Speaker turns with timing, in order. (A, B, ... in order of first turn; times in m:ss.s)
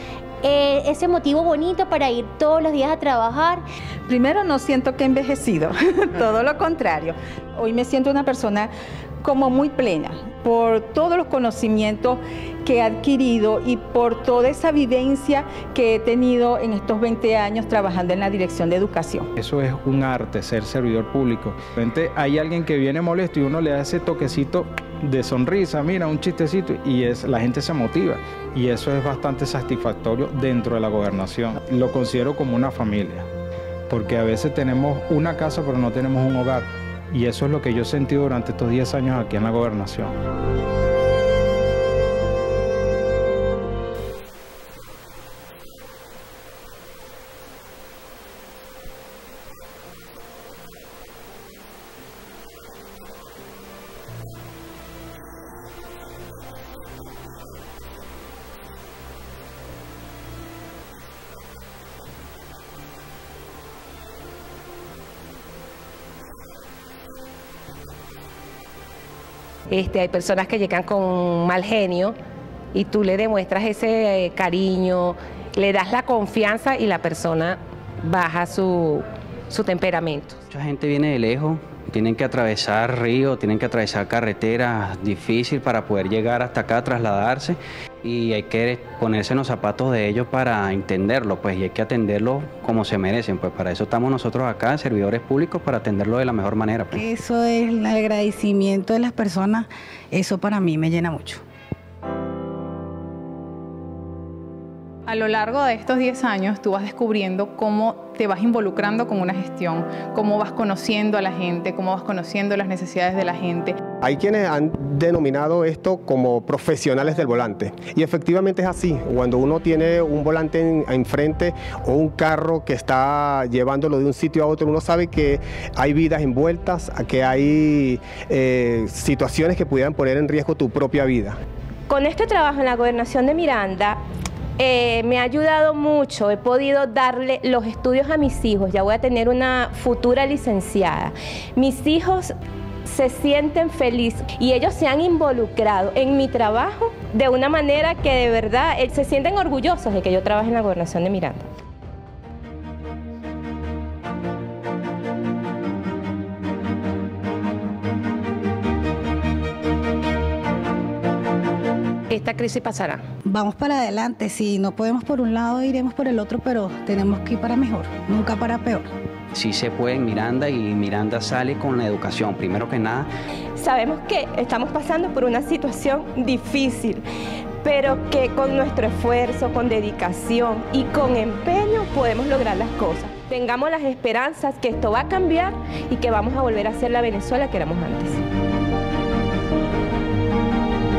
0:00.4-0:03.6 A
0:04.1-0:08.7 B
0:09.2-0:19.3 B
0:19.4-0:33.3 C
0:33.9-0:40.1 C
1:09.7-1:12.2 D
1:12.7-1:20.4 D
1:20.5-1:37.0 E
1:36.9-1:41.4 F
1:45.1-1:53.8 G
1:54.0-2:11.4 H
2:11.9-2:14.0 I
2:14.6-2:22.3 I
2:22.8-2:31.5 I
2:42.1-2:43.0 D
2:43.2-2:48.9 F
2:49.3-2:53.1 E
2:53.6-2:57.0 I
2:57.6-3:08.2 I